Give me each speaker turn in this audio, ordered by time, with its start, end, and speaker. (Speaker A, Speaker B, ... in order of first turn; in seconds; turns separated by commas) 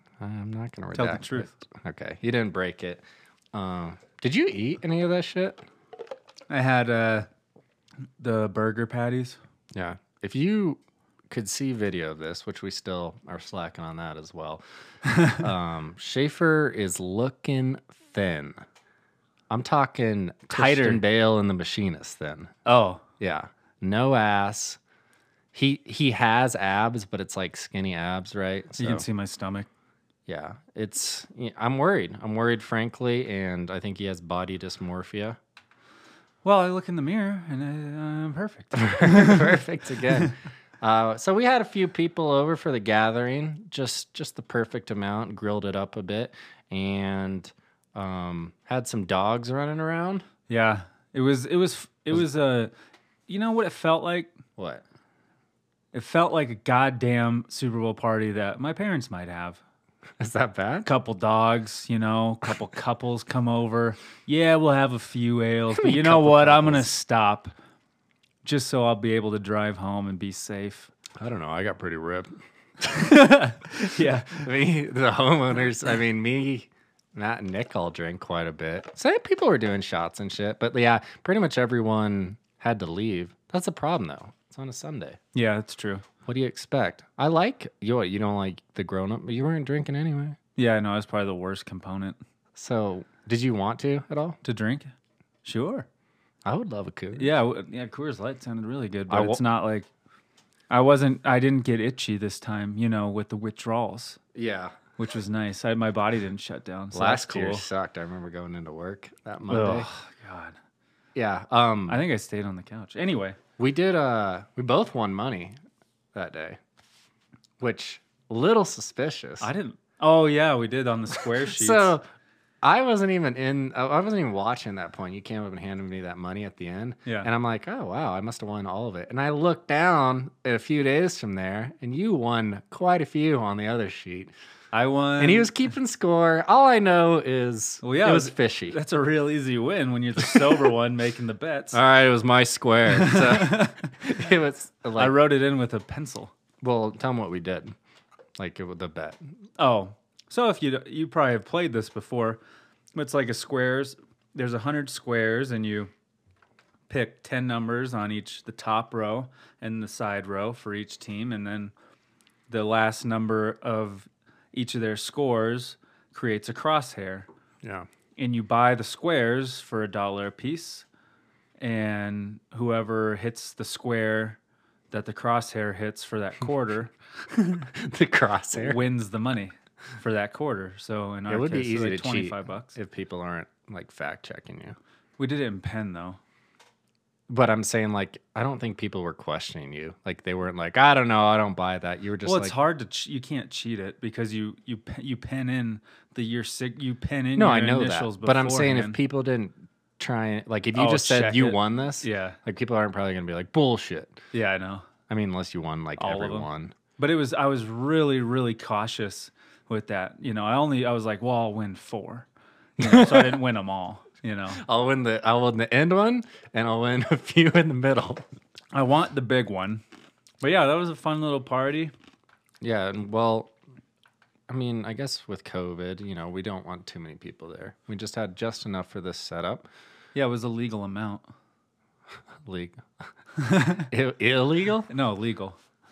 Speaker A: 0.2-5.6, Speaker B: 0.9-1.5, Speaker B: 6.5-7.3, Speaker B: 8.2-9.4, Speaker A: 9.7-14.6, Speaker B: 15.1-15.4, Speaker A: 15.3-18.6, Speaker A: 19.5-22.5, Speaker B: 20.5-21.0, Speaker B: 22.6-23.0, Speaker A: 23.2-24.8, Speaker A: 25.5-29.0, Speaker B: 28.8-29.7, Speaker A: 30.3-35.4, Speaker B: 36.4-40.3, Speaker A: 38.8-50.2, Speaker B: 50.5-52.7, Speaker B: 53.3-54.4, Speaker A: 54.6-54.8, Speaker B: 55.9-59.6, Speaker A: 60.2-60.9, Speaker B: 60.8-67.5, Speaker A: 65.7-66.9, Speaker B: 68.4-70.9, Speaker A: 71.2-72.9, Speaker B: 72.8-74.5, Speaker A: 74.0-85.2, Speaker B: 85.3-86.0, Speaker A: 86.2-90.4, Speaker B: 90.5-92.2, Speaker A: 92.5-94.4, Speaker B: 94.4-94.9, Speaker B: 95.4-95.9, Speaker A: 96.4-97.3, Speaker B: 97.1-99.9, Speaker A: 99.1-99.4, Speaker B: 100.7-104.2, Speaker A: 104.3-104.8, Speaker B: 105.0-107.7, Speaker A: 106.9-109.9, Speaker B: 109.5-110.5, Speaker A: 111.1-112.0, Speaker B: 111.9-113.4, Speaker A: 113.6-115.5, Speaker A: 116.1-116.6, Speaker A: 117.6-119.5, Speaker B: 119.4-122.0, Speaker A: 121.3-122.0, Speaker A: 122.6-134.3, Speaker B: 134.7-135.5, Speaker A: 135.2-138.8, Speaker B: 137.8-141.8, Speaker A: 140.2-140.7, Speaker A: 141.7-145.2, Speaker B: 142.9-143.9, Speaker B: 145.0-146.3, Speaker A: 146.6-147.7, Speaker A: 148.4-149.2, Speaker B: 149.6-152.4, Speaker B: 152.9-155.9, Speaker B: 156.9-161.7, Speaker B: 162.5-167.3, Speaker B: 168.2-170.8, Speaker B: 171.6-174.4, Speaker B: 174.9-177.7, Speaker A: 177.7-178.8, Speaker B: 178.5-182.7, Speaker A: 181.3-184.8, Speaker B: 185.2-186.2, Speaker A: 187.3-192.6, Speaker B: 192.2-199.0, Speaker A: 197.3-204.2, Speaker B: 200.7-202.4, Speaker B: 204.3-204.9, Speaker A: 205.1-206.7, Speaker B: 206.0-212.3, Speaker B: 212.8-214.6, Speaker A: 212.8-213.4, Speaker A: 214.6-218.2, Speaker B: 218.7-219.8, Speaker B: 220.4-221.9, Speaker A: 222.6-223.5, Speaker A: 224.5-229.7, Speaker B: 230.1-231.2, Speaker A: 232.4-232.8, Speaker B: 233.4-233.9, Speaker A: 233.9-234.9, Speaker B: 234.9-235.6